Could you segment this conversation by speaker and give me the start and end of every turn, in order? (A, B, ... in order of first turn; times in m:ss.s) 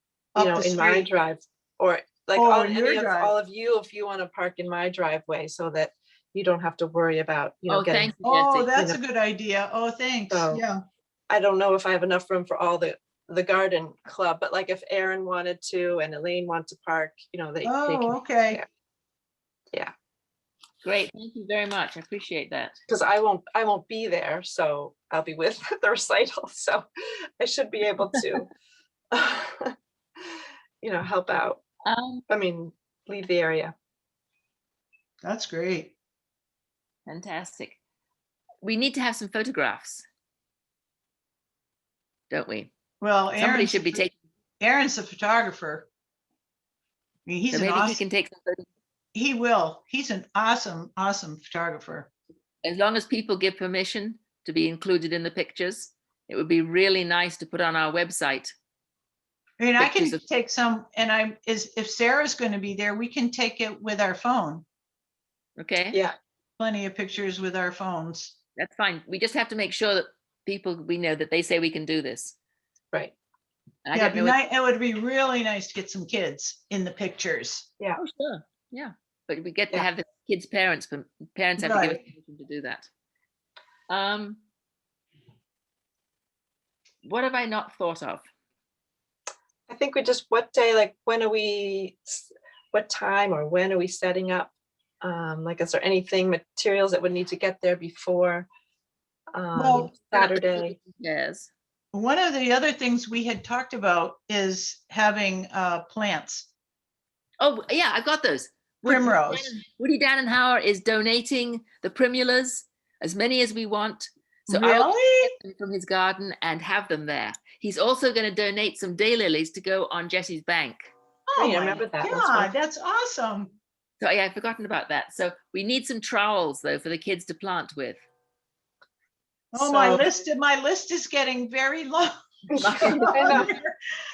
0:00.3-0:01.1 A
0:00.4-0:08.1 B
0:02.4-0:03.3 A
0:07.7-0:08.7 C
0:08.2-0:10.8 A
0:10.3-0:10.6 B
0:11.3-0:18.7 B
0:17.6-0:18.6 A
0:20.8-0:22.8 C
0:22.9-0:26.8 B
0:27.4-0:28.5 B
0:29.1-0:29.7 B
0:30.8-0:31.6 B
0:31.8-0:32.2 C
0:32.3-0:33.7 B
0:35.2-0:35.9 A
0:37.1-0:37.8 C
0:38.6-0:40.0 C
0:42.3-0:42.7 C
0:43.0-0:44.0 A
0:43.4-0:44.1 C
0:44.6-0:45.9 A
0:47.2-0:48.0 A
0:47.5-0:48.7 C
0:49.1-0:52.1 A
0:52.6-0:58.5 C
0:59.6-1:04.6 A
0:59.8-1:00.2 C
1:05.6-1:06.0 C
1:06.6-1:08.4 A
1:08.6-1:12.4 C
1:13.8-1:14.4 C
1:13.9-1:17.7 A
1:18.0-1:22.9 C
1:21.6-1:22.0 A
1:23.9-1:24.4 C
1:27.0-1:28.2 C
1:29.7-1:38.5 B
1:39.3-1:40.8 B
1:39.5-1:39.9 A
1:39.9-1:41.5 C
1:41.9-1:46.5 A
1:47.4-2:00.9 C
1:48.8-1:49.5 A
1:54.5-1:55.3 A
2:01.3-2:03.5 A
2:01.4-2:02.5 B
2:04.0-2:08.0 C
2:09.5-2:13.8 A
2:09.6-2:10.1 B
2:12.5-2:13.5 B
2:12.6-2:13.4 C